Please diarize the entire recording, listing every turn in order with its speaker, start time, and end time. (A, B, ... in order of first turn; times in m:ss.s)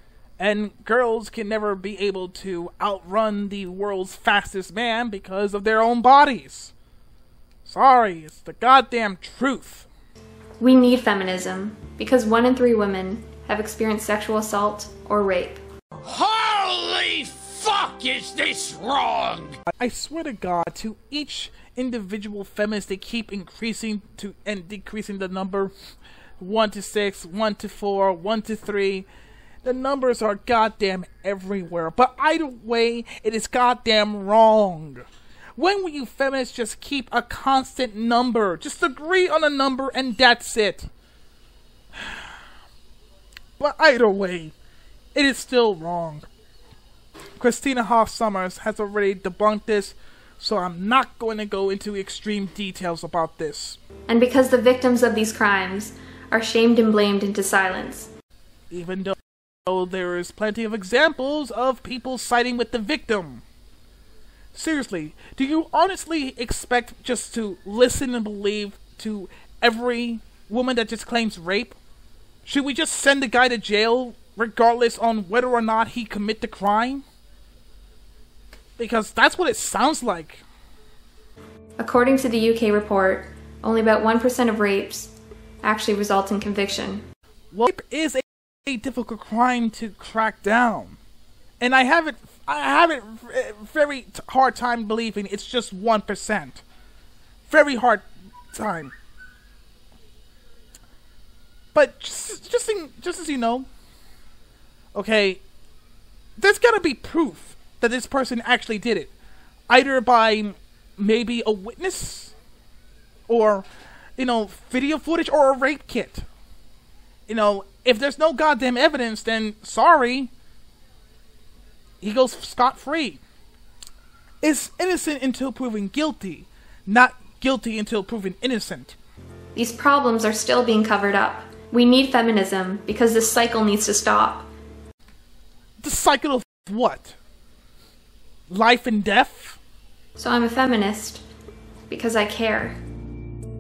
0:00.4-0:06.7 A
0:07.6-0:09.9 A
0:10.6-0:15.6 B
0:16.0-0:19.6 C
0:19.7-0:25.7 A
0:26.4-0:29.1 A
0:29.6-0:35.0 A
0:35.6-0:40.9 A
0:43.6-0:44.5 A
0:45.1-0:46.3 A
0:47.4-0:53.8 A
0:54.1-0:58.1 B
0:58.7-1:03.4 A
1:04.5-1:11.8 A
1:12.4-1:17.0 A
1:18.8-1:20.4 A
1:21.8-1:27.0 B
1:27.5-1:31.0 A
1:31.6-1:36.6 A
1:37.5-1:38.9 A
1:41.7-1:43.7 A
1:44.9-1:45.4 A
1:46.4-1:49.1 A
1:49.7-1:52.3 A
1:53.3-1:56.3 A
1:57.3-2:00.3 A
2:02.0-2:03.2 A
2:04.4-2:09.0 A
2:09.6-2:14.5 B
2:15.8-2:17.2 A
2:18.5-2:19.6 A
2:20.2-2:21.2 B
2:21.9-2:22.8 B